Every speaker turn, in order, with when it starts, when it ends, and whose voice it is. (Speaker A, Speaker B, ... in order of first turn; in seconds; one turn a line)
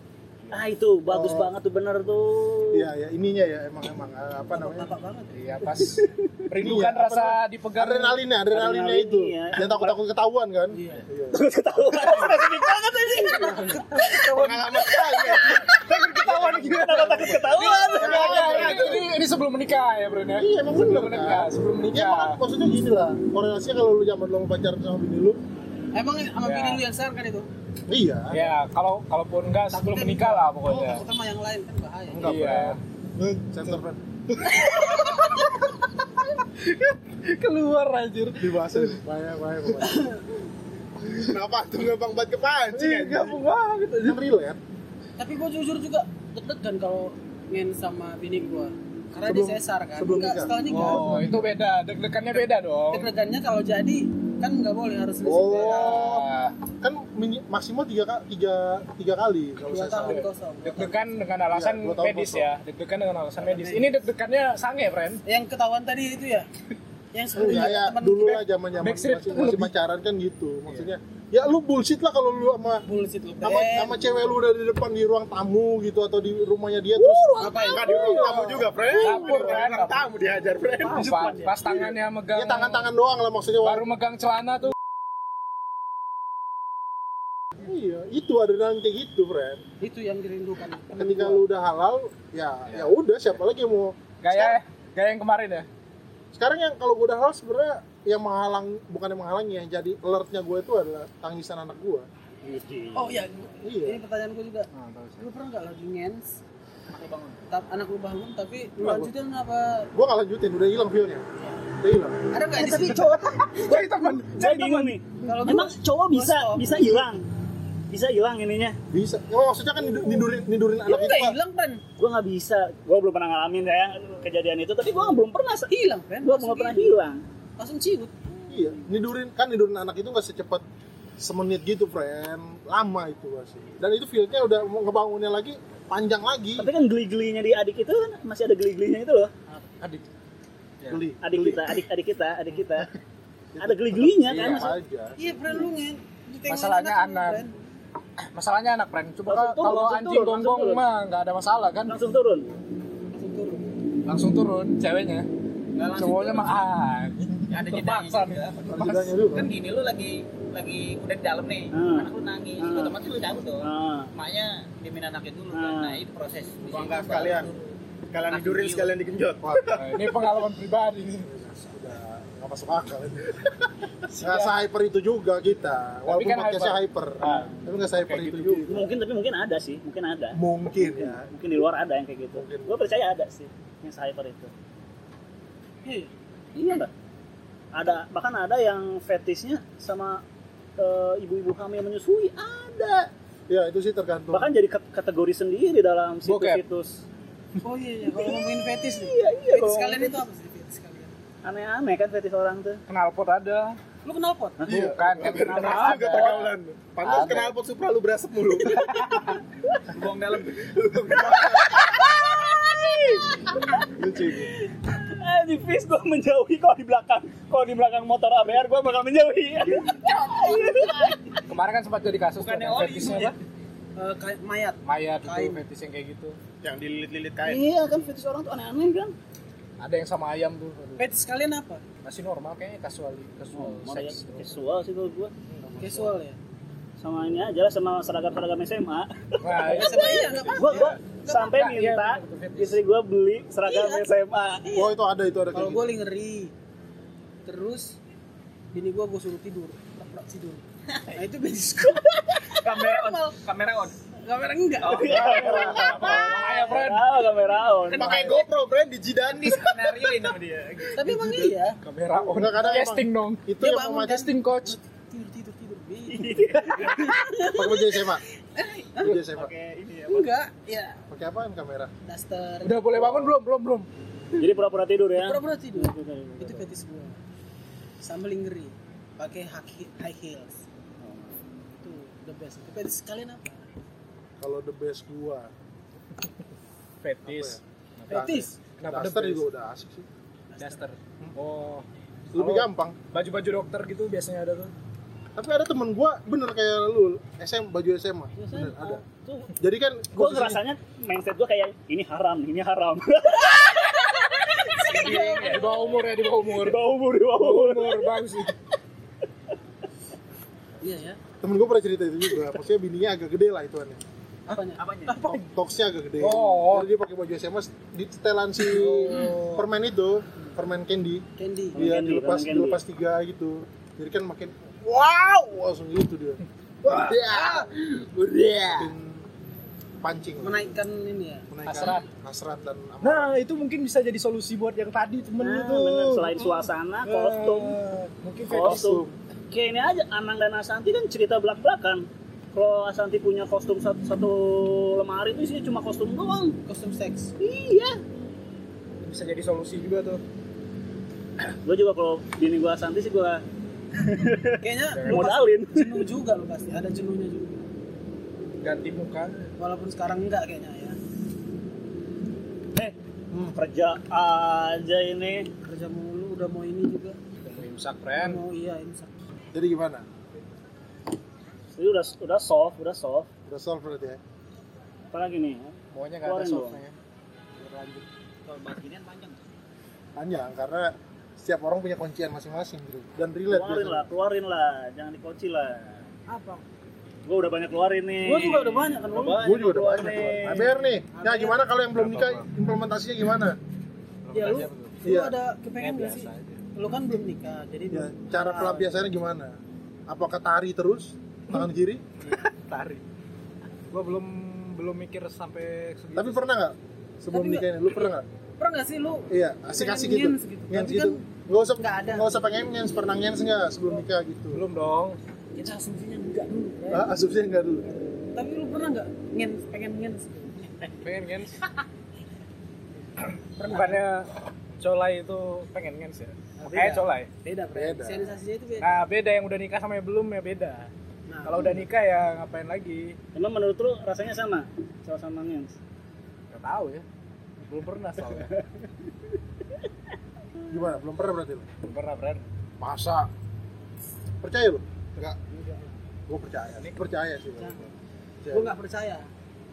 Speaker A: 0.5-2.9
Speaker B: 1.1-1.5
Speaker B: 2.7-4.9
Speaker C: 4.5-6.0
Speaker D: 5.3-8.2
Speaker B: 6.6-11.4
Speaker A: 8.5-10.0
Speaker C: 10.7-11.0
Speaker A: 11.3-13.7
Speaker C: 13.2-14.8
Speaker D: 13.4-14.6
Speaker B: 14.3-15.6
Speaker E: 14.4-15.3
Speaker A: 14.7-19.0
Speaker D: 15.6-22.4
Speaker B: 18.0-19.1
Speaker B: 20.4-25.4
Speaker C: 25.9-27.5
Speaker D: 26.4-26.8
Speaker B: 27.9-28.5
Speaker D: 28.3-31.1
Speaker C: 29.7-32.5
Speaker B: 32.1-32.8
Speaker D: 32.2-33.8
Speaker B: 33.5-34.0
Speaker D: 34.3-39.0
Speaker C: 34.6-35.1
Speaker B: 38.4-40.1
Speaker C: 39.8-40.4
Speaker E: 41.3-43.4
Speaker D: 42.7-44.2
Speaker B: 42.8-43.3
Speaker B: 44.0-44.6
Speaker C: 45.2-51.1
Speaker B: 49.2-51.5
Speaker D: 50.7-53.1
Speaker C: 52.9-56.1
Speaker B: 55.2-56.3
Speaker D: 55.6-56.5
Speaker B: 56.8-60.2
Speaker C: 59.7-61.0
Speaker D: 60.0-65.2
Speaker B: 61.5-62.5
Speaker C: 63.4-63.9
Speaker C: 65.3-66.5
Speaker C: 67.1-68.5
Speaker B: 67.3-72.9
Speaker D: 68.8-69.7
Speaker C: 72.9-74.3
Speaker B: 73.4-79.5
Speaker C: 77.4-78.2
Speaker E: 77.7-81.3
Speaker D: 79.0-80.1
Speaker C: 80.8-81.6
Speaker D: 80.9-82.9
Speaker B: 82.3-83.9
Speaker D: 83.6-84.7
Speaker B: 87.6-89.6
Speaker C: 89.8-91.4
Speaker B: 90.9-94.6
Speaker D: 92.7-93.0
Speaker D: 94.2-95.7
Speaker B: 96.3-102.1
Speaker A: 102.4-103.2
Speaker C: 103.0-106.4
Speaker B: 103.6-104.0
Speaker D: 104.7-105.3
Speaker F: 106.9-107.4
Speaker C: 107.5-109.9
Speaker B: 108.8-109.1
Speaker B: 109.9-112.3
Speaker C: 111.4-111.6
Speaker C: 112.3-113.8
Speaker A: 112.6-113.4
Speaker D: 112.6-115.0
Speaker A: 114.4-117.3
Speaker C: 115.2-116.9
Speaker A: 117.9-118.8
Speaker B: 118.9-121.3
Speaker C: 120.8-121.8
Speaker A: 122.0-127.2
Speaker C: 125.7-127.0
Speaker C: 127.6-128.6
Speaker B: 128.5-130.7
Speaker B: 131.2-136.7
Speaker A: 136.6-139.3
Speaker D: 140.8-141.1
Speaker B: 140.9-141.8
Speaker A: 141.2-142.9
Speaker B: 143.5-145.5
Speaker A: 143.6-144.7
Speaker D: 144.3-144.7
Speaker C: 145.2-147.6
Speaker D: 146.5-147.4
Speaker D: 148.3-151.9
Speaker A: 149.3-150.8
Speaker A: 151.9-152.5
Speaker C: 153.1-153.7
Speaker D: 154.1-155.3
Speaker F: 155.8-156.7
Speaker D: 155.9-158.4
Speaker F: 157.5-167.5
Speaker B: 158.7-159.5
Speaker A: 161.7-163.0
Speaker A: 163.6-164.1
Speaker A: 165.5-166.1
Speaker E: 166.7-167.5
Speaker E: 168.1-170.0
Speaker F: 168.3-169.0
Speaker B: 169.4-169.8
Speaker D: 169.8-171.3
Speaker B: 171.3-173.5
Speaker D: 174.1-174.5
Speaker B: 174.2-178.9
Speaker D: 176.1-178.7
Speaker A: 178.7-184.5
Speaker B: 180.3-181.3
Speaker B: 182.3-182.8
Speaker C: 185.8-186.1
Speaker A: 186.6-186.9
Speaker A: 187.7-190.2
Speaker A: 190.8-193.1
Speaker B: 193.5-194.5
Speaker A: 194.3-197.0
Speaker D: 196.2-196.6
Speaker C: 197.6-201.1
Speaker A: 199.0-200.2
Speaker A: 201.4-202.8
Speaker D: 202.9-203.8
Speaker C: 204.0-204.6
Speaker E: 204.6-208.9
Speaker D: 204.7-206.6
Speaker B: 204.7-205.3
Speaker A: 205.2-206.5
Speaker A: 207.1-207.4
Speaker D: 208.8-209.1
Speaker F: 209.9-210.7
Speaker E: 210.5-211.8
Speaker A: 211.4-221.4
Speaker E: 214.0-214.5
Speaker F: 219.9-220.6
Speaker C: 220.0-220.8
Speaker D: 221.5-223.4
Speaker F: 222.4-223.4
Speaker C: 224.0-225.6
Speaker D: 224.8-226.4
Speaker E: 226.6-227.6
Speaker A: 227.4-229.2
Speaker D: 229.8-231.1
Speaker C: 231.0-231.8
Speaker D: 232.0-234.6
Speaker A: 233.5-235.3
Speaker D: 235.5-235.8
Speaker B: 235.7-236.1
Speaker C: 235.8-236.4
Speaker A: 237.0-244.9
Speaker D: 239.4-242.8
Speaker C: 239.6-241.6
Speaker C: 243.6-244.1
Speaker B: 244.7-245.9
Speaker C: 245.5-246.5
Speaker C: 247.5-248.0
Speaker C: 248.7-253.3
Speaker F: 252.6-254.0
Speaker C: 254.3-255.7
Speaker F: 254.8-256.3
Speaker A: 254.8-258.3
Speaker D: 255.2-257.3
Speaker F: 257.9-258.4
Speaker E: 258.0-260.0
Speaker B: 258.0-258.3
Speaker F: 259.5-261.0
Speaker C: 260.9-261.8
Speaker D: 261.8-264.8
Speaker B: 262.2-264.3
Speaker C: 263.6-269.1
Speaker A: 266.1-267.1
Speaker B: 267.5-268.2
Speaker A: 268.9-270.3
Speaker B: 269.0-269.5
Speaker C: 270.1-271.0
Speaker B: 271.1-271.9
Speaker C: 272.1-273.3
Speaker D: 272.6-273.9
Speaker A: 274.3-276.7
Speaker C: 275.2-277.2
Speaker C: 278.0-280.6
Speaker A: 281.0-281.4
Speaker C: 281.8-283.7
Speaker B: 284.4-285.5
Speaker D: 287.0-289.4
Speaker B: 287.2-287.6
Speaker C: 288.1-288.6
Speaker B: 288.1-290.1
Speaker C: 290.5-290.9
Speaker D: 290.6-294.7
Speaker B: 292.3-293.0
Speaker B: 295.4-299.0
Speaker C: 298.4-299.0
Speaker B: 299.6-300.6
Speaker A: 300.1-305.5
Speaker C: 304.0-306.0
Speaker F: 304.9-305.8
Speaker D: 305.4-306.8
Speaker A: 306.4-308.2
Speaker D: 307.3-308.6
Speaker C: 310.8-311.2
Speaker B: 311.4-314.0
Speaker C: 314.5-315.4
Speaker F: 314.8-315.2
Speaker D: 315.1-315.5
Speaker B: 315.5-327.7
Speaker D: 316.2-316.9
Speaker D: 318.7-319.7
Speaker C: 321.4-321.9
Speaker A: 321.8-322.8
Speaker D: 326.8-328.9
Speaker B: 328.8-329.3
Speaker B: 330.0-330.8
Speaker C: 330.4-331.5
Speaker B: 331.5-333.3
Speaker D: 331.7-332.1
Speaker D: 333.0-339.0
Speaker A: 335.4-337.8
Speaker A: 338.5-346.6
Speaker B: 338.5-339.1
Speaker C: 346.7-347.3
Speaker A: 347.4-348.0
Speaker D: 349.0-350.2
Speaker A: 351.6-353.4
Speaker A: 354.0-356.1
Speaker C: 354.6-357.6
Speaker D: 354.9-355.4
Speaker D: 358.6-359.5
Speaker C: 359.6-361.0
Speaker A: 362.8-365.5
Speaker C: 365.6-367.2
Speaker D: 367.4-368.4
Speaker C: 368.2-369.1
Speaker B: 369.5-370.1
Speaker A: 371.8-373.3
Speaker B: 373.5-374.2
Speaker A: 375.1-376.8
Speaker D: 375.9-376.9
Speaker F: 378.4-379.4
Speaker B: 380.2-384.1
Speaker A: 383.5-386.1
Speaker C: 386.3-386.6
Speaker A: 387.3-390.9
Speaker C: 388.2-389.5
Speaker B: 389.3-393.6
Speaker C: 391.1-391.6
Speaker D: 392.0-392.5
Speaker D: 394.2-395.0
Speaker C: 394.3-399.1
Speaker B: 395.0-395.4
Speaker D: 395.8-396.6
Speaker B: 397.9-399.6
Speaker B: 400.1-402.0
Speaker D: 402.2-403.0
Speaker D: 403.9-406.5
Speaker B: 406.1-408.3
Speaker C: 407.3-412.5
Speaker B: 409.3-414.6
Speaker D: 414.5-415.2
Speaker C: 415.6-417.1
Speaker B: 416.9-417.9
Speaker C: 418.3-420.9
Speaker D: 421.0-421.6
Speaker C: 423.6-424.1
Speaker D: 423.6-427.3
Speaker C: 426.6-428.9
Speaker B: 427.7-428.4
Speaker D: 428.8-430.9
Speaker C: 431.3-431.8
Speaker D: 431.4-433.2
Speaker A: 433.4-435.8
Speaker D: 436.5-437.0
Speaker D: 437.6-438.5
Speaker A: 438.3-438.6
Speaker B: 440.7-441.7
Speaker D: 441.8-442.4
Speaker B: 442.8-443.3
Speaker B: 444.4-445.4
Speaker C: 445.5-445.9
Speaker B: 446.3-447.9
Speaker C: 447.6-447.9
Speaker B: 448.4-448.7
Speaker C: 448.5-449.3